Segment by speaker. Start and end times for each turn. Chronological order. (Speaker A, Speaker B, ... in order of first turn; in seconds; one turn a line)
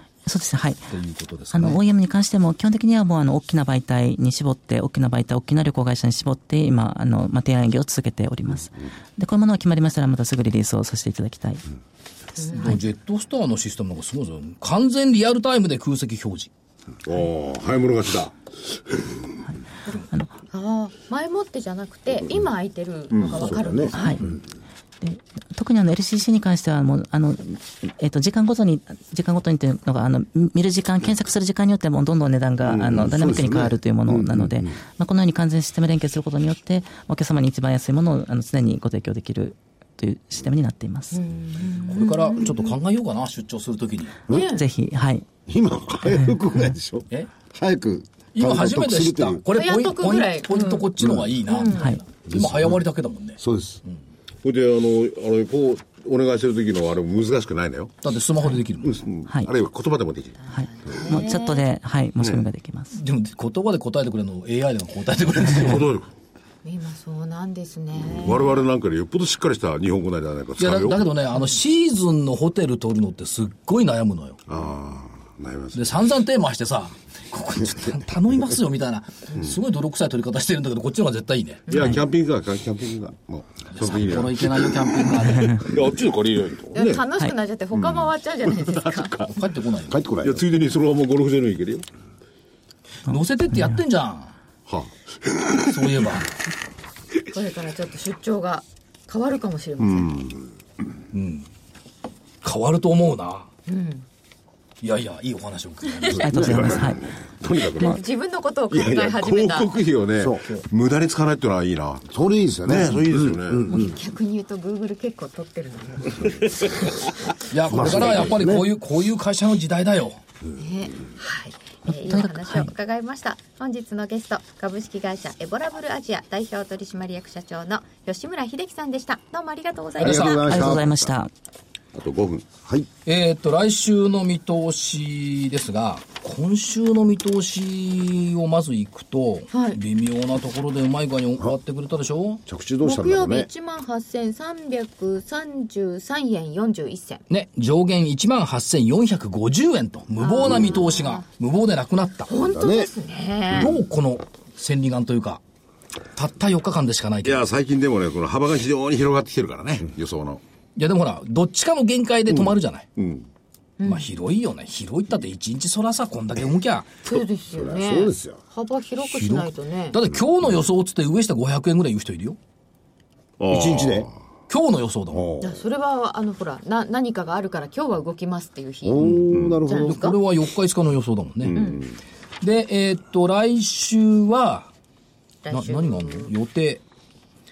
Speaker A: 0.2-0.9
Speaker B: 0.9-1.8
Speaker A: 1.5-11.6
Speaker C: 12.4-12.8
Speaker B: 12.5-16.5
Speaker D: 17.1-19.3
Speaker A: 20.1-20.4
Speaker C: 20.5-24.2
Speaker D: 23.1-23.5
Speaker E: 23.3-24.4
Speaker A: 23.9-24.2
Speaker A: 25.0-41.2
Speaker D: 32.6-33.5
Speaker E: 34.1-34.7
Speaker C: 41.1-42.7
Speaker B: 41.8-44.2
Speaker C: 44.3-44.6
Speaker A: 44.3-45.3
Speaker E: 45.5-49.4
Speaker A: 46.0-46.5
Speaker B: 48.3-54.0
Speaker C: 49.5-50.9
Speaker C: 51.4-52.0
Speaker A: 51.7-52.0
Speaker E: 52.3-52.7
Speaker E: 53.4-53.8
Speaker D: 54.4-57.9
Speaker B: 58.0-59.0
Speaker D: 58.8-60.5
Speaker C: 60.5-61.6
Speaker A: 60.5-63.0
Speaker B: 62.9-65.8
Speaker D: 65.5-66.1
Speaker C: 66.6-68.6
Speaker D: 68.1-71.1
Speaker B: 70.6-74.4
Speaker D: 74.5-76.0
Speaker B: 75.7-81.7
Speaker C: 81.7-82.0
Speaker D: 81.7-87.0
Speaker B: 83.7-85.7
Speaker C: 86.7-89.3
Speaker D: 87.7-89.2
Speaker B: 89.2-90.0
Speaker E: 89.9-90.4
Speaker D: 90.2-91.8
Speaker B: 93.0-94.3
Speaker D: 94.7-95.7
Speaker B: 95.6-96.3
Speaker C: 97.3-100.3
Speaker D: 99.8-100.3
Speaker B: 101.1-101.5
Speaker B: 102.4-103.5
Speaker C: 103.7-104.1
Speaker B: 104.8-106.7
Speaker A: 106.2-107.0
Speaker D: 106.3-108.0
Speaker C: 107.7-109.7
Speaker D: 108.7-112.1
Speaker E: 112.1-114.0
Speaker D: 112.6-113.8
Speaker C: 113.7-116.4
Speaker D: 116.2-116.9
Speaker B: 117.5-120.2
Speaker E: 117.7-118.6
Speaker C: 120.5-130.7
Speaker A: 121.9-122.7
Speaker E: 130.0-131.1
Speaker A: 130.0-131.3
Speaker D: 131.9-132.5
Speaker B: 133.0-142.4
Speaker C: 139.5-139.8
Speaker E: 142.4-143.5
Speaker C: 142.8-147.2
Speaker B: 147.3-152.3
Speaker C: 150.2-151.2
Speaker C: 152.3-153.8
Speaker E: 152.4-152.9
Speaker B: 153.5-155.4
Speaker B: 156.1-157.4
Speaker D: 157.2-160.4
Speaker B: 160.8-162.9
Speaker D: 162.3-163.3
Speaker C: 163.8-164.1
Speaker B: 163.8-167.0
Speaker C: 167.0-170.0
Speaker E: 167.5-168.4
Speaker B: 169.0-172.4
Speaker D: 173.4-174.1
Speaker E: 173.5-174.1
Speaker B: 174.5-175.3
Speaker E: 175.1-175.6
Speaker C: 175.4-180.2
Speaker E: 178.8-180.0
Speaker B: 179.0-181.8
Speaker D: 179.3-179.6
Speaker D: 181.5-181.8
Speaker C: 181.5-181.8
Speaker B: 182.4-184.7
Speaker C: 185.4-186.3
Speaker B: 185.5-186.8